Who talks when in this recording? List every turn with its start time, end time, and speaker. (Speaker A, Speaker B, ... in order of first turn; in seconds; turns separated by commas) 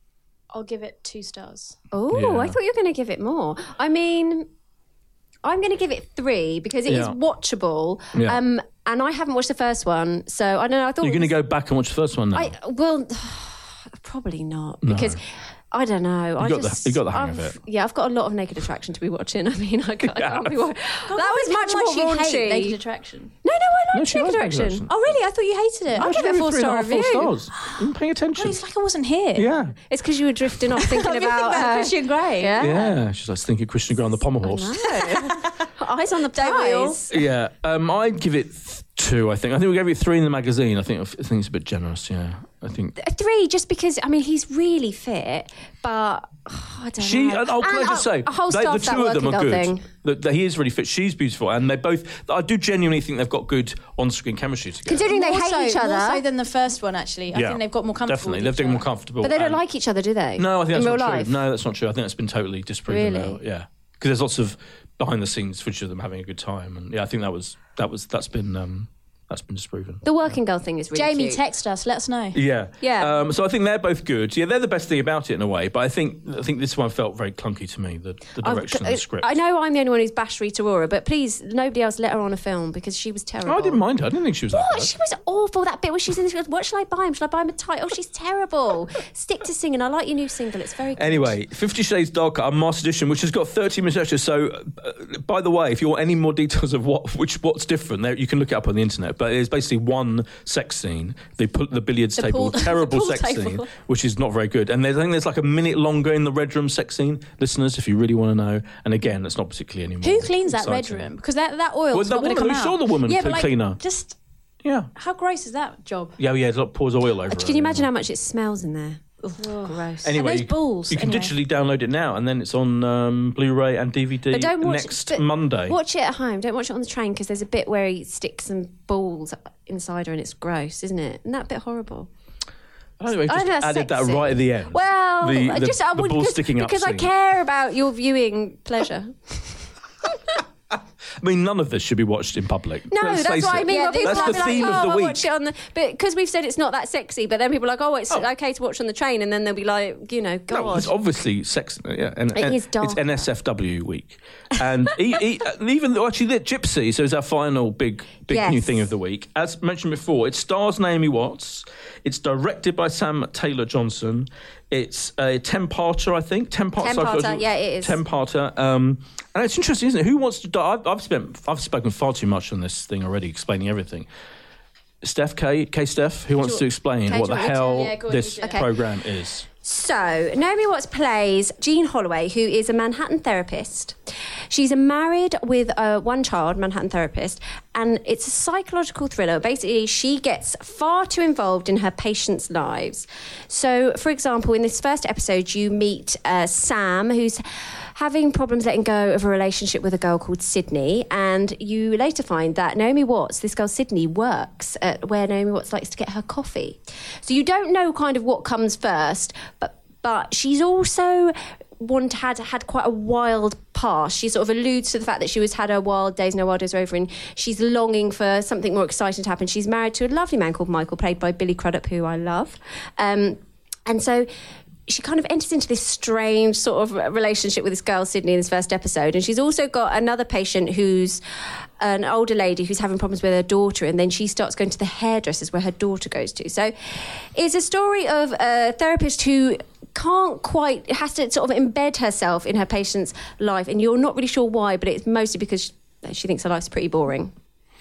Speaker A: 0.5-1.8, Speaker B: 1.9-4.5, Speaker C: 2.1-2.6, Speaker B: 5.4-11.3, Speaker C: 6.9-7.2, Speaker C: 11.0-12.5, Speaker B: 12.3-22.8, Speaker C: 14.8-15.2, Speaker C: 16.4-17.6, Speaker C: 20.0-20.6, Speaker A: 21.1-23.3, Speaker B: 23.4-24.8, Speaker C: 23.9-25.1, Speaker A: 24.9-26.4, Speaker C: 25.9-28.6, Speaker B: 25.9-27.3, Speaker A: 28.3-29.5, Speaker C: 29.3-29.8, Speaker B: 29.9-32.9, Speaker A: 30.7-32.7, Speaker C: 32.6-35.0, Speaker B: 34.4-37.1, Speaker A: 35.0-35.6, Speaker A: 36.3-37.0, Speaker C: 37.1-43.0, Speaker B: 43.0-49.9, Speaker C: 47.0-55.1, Speaker B: 54.8-56.2, Speaker A: 55.1-58.9, Speaker C: 57.3-59.6, Speaker B: 59.2-61.4, Speaker C: 60.4-70.0, Speaker B: 62.9-63.4, Speaker B: 70.0-71.4, Speaker A: 70.9-72.4, Speaker C: 72.3-79.3, Speaker B: 72.8-73.2, Speaker B: 78.4-83.8, Speaker C: 83.4-84.9, Speaker B: 84.5-91.3, Speaker C: 91.0-111.1, Speaker A: 102.2-103.7, Speaker A: 110.0-114.2, Speaker C: 111.9-113.8, Speaker C: 114.6-114.9, Speaker A: 114.9-116.2, Speaker C: 116.2-117.9, Speaker B: 117.3-120.2, Speaker A: 119.2-121.3, Speaker C: 120.0-125.8, Speaker B: 124.3-132.1, Speaker C: 133.0-137.1, Speaker B: 133.2-140.4, Speaker C: 141.2-145.2, Speaker B: 142.9-150.9, Speaker A: 143.6-144.9, Speaker C: 150.5-174.1, Speaker B: 152.3-153.3, Speaker B: 158.3-158.9, Speaker B: 166.8-168.0, Speaker C: 175.0-179.4, Speaker A: 176.4-178.7, Speaker B: 177.1-177.9, Speaker B: 179.6-183.9, Speaker B: 184.5-197.4, Speaker B: 197.9-224.3, Speaker B: 224.9-231.2, Speaker B: 231.8-247.3